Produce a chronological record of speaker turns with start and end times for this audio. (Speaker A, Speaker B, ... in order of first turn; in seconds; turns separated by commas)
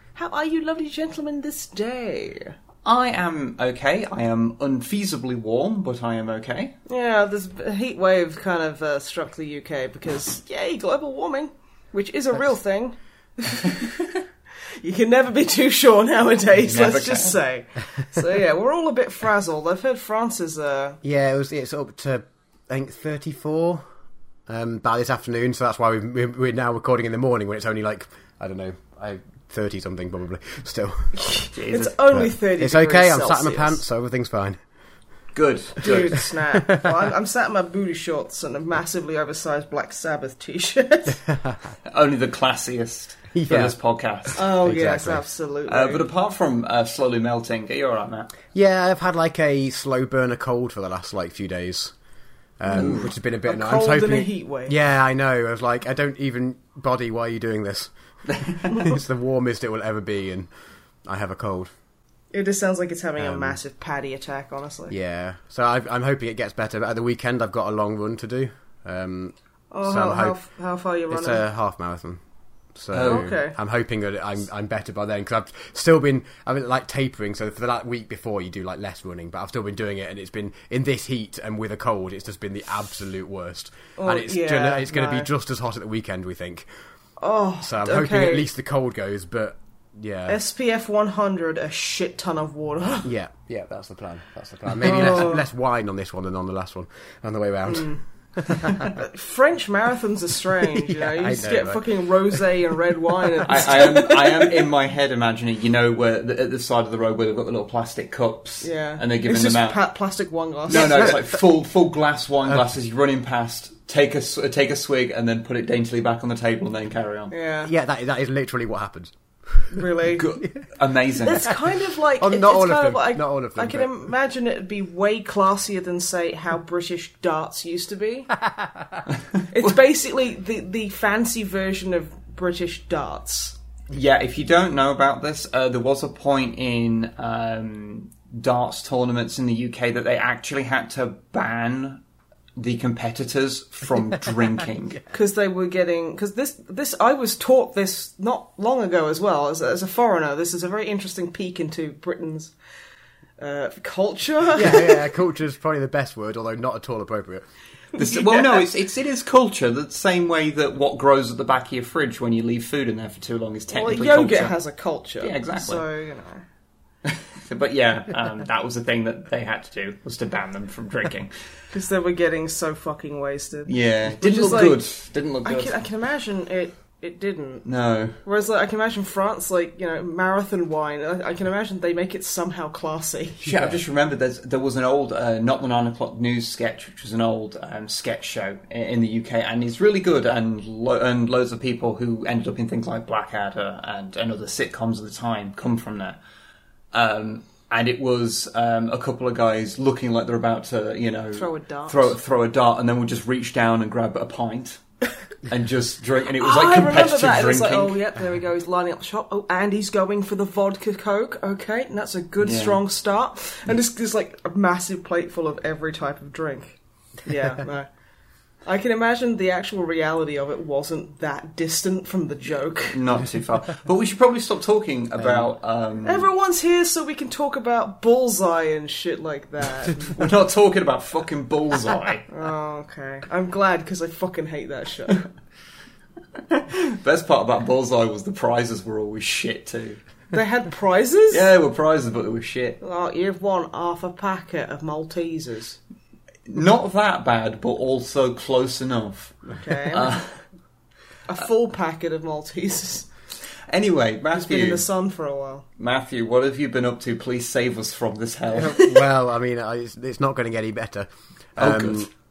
Speaker A: 0.2-2.6, Speaker B: 2.9-6.8, Speaker A: 6.9-14.1, Speaker A: 14.8-21.0, Speaker B: 16.6-17.4, Speaker C: 21.0-23.8, Speaker C: 24.5-31.4, Speaker A: 31.2-33.8, Speaker B: 31.5-31.9, Speaker C: 32.1-34.6, Speaker B: 35.4-36.2, Speaker A: 35.8-41.2, Speaker C: 36.5-36.9, Speaker C: 41.3-41.6, Speaker B: 41.9-44.5, Speaker C: 43.3-43.8, Speaker A: 44.4-46.0, Speaker C: 44.6-45.2, Speaker B: 45.7-48.3, Speaker C: 48.5-51.9, Speaker C: 52.6-57.9, Speaker B: 52.7-53.1, Speaker A: 52.8-54.8, Speaker B: 58.3-58.8, Speaker C: 58.6-60.5, Speaker C: 61.0-61.7, Speaker A: 62.3-65.0, Speaker C: 63.2-63.6, Speaker C: 64.9-70.4, Speaker A: 69.7-71.4, Speaker C: 71.1-72.2, Speaker C: 72.8-86.7, Speaker B: 72.9-73.3, Speaker A: 73.1-73.6, Speaker A: 84.0-85.3, Speaker A: 87.2-88.5, Speaker C: 87.6-90.4, Speaker A: 90.3-93.1, Speaker C: 93.0-99.0, Speaker A: 94.8-95.4, Speaker A: 97.7-104.7, Speaker C: 100.6-102.4, Speaker B: 103.5-109.8, Speaker A: 108.6-111.2, Speaker B: 110.7-117.3, Speaker A: 117.3-117.7, Speaker C: 117.7-119.8, Speaker A: 119.7-120.3, Speaker B: 120.2-121.5, Speaker A: 121.2-128.3, Speaker C: 122.2-124.1, Speaker C: 128.5-129.0, Speaker A: 129.5-133.6, Speaker B: 133.9-142.0, Speaker B: 142.6-145.0, Speaker A: 145.1-152.5, Speaker A: 153.4-155.0, Speaker C: 154.6-157.4, Speaker A: 157.9-158.7, Speaker B: 158.0-164.6, Speaker A: 163.7-166.4, Speaker B: 165.2-165.8, Speaker B: 167.1-171.3, Speaker A: 171.7-174.8, Speaker B: 173.7-175.7, Speaker A: 175.4-177.7, Speaker B: 177.7-178.2, Speaker A: 178.2-183.5, Speaker B: 183.5-196.2, Speaker B: 196.9-204.8, Speaker A: 201.3-202.2, Speaker B: 205.5-208.0, Speaker A: 206.4-217.9, Speaker B: 212.4-212.8, Speaker A: 218.7-223.0, Speaker B: 222.9-226.3, Speaker A: 226.0-230.2, Speaker B: 230.0-232.3, Speaker A: 232.3-235.3, Speaker B: 236.5-240.0, Speaker A: 240.3-241.5, Speaker B: 241.3-242.8, Speaker A: 242.8-245.8, Speaker B: 246.5-250.4, Speaker A: 249.5-250.1, Speaker A: 251.3-253.1, Speaker B: 253.7-254.9, Speaker A: 254.3-255.7, Speaker B: 255.8-258.8, Speaker C: 258.5-262.1, Speaker B: 261.6-262.1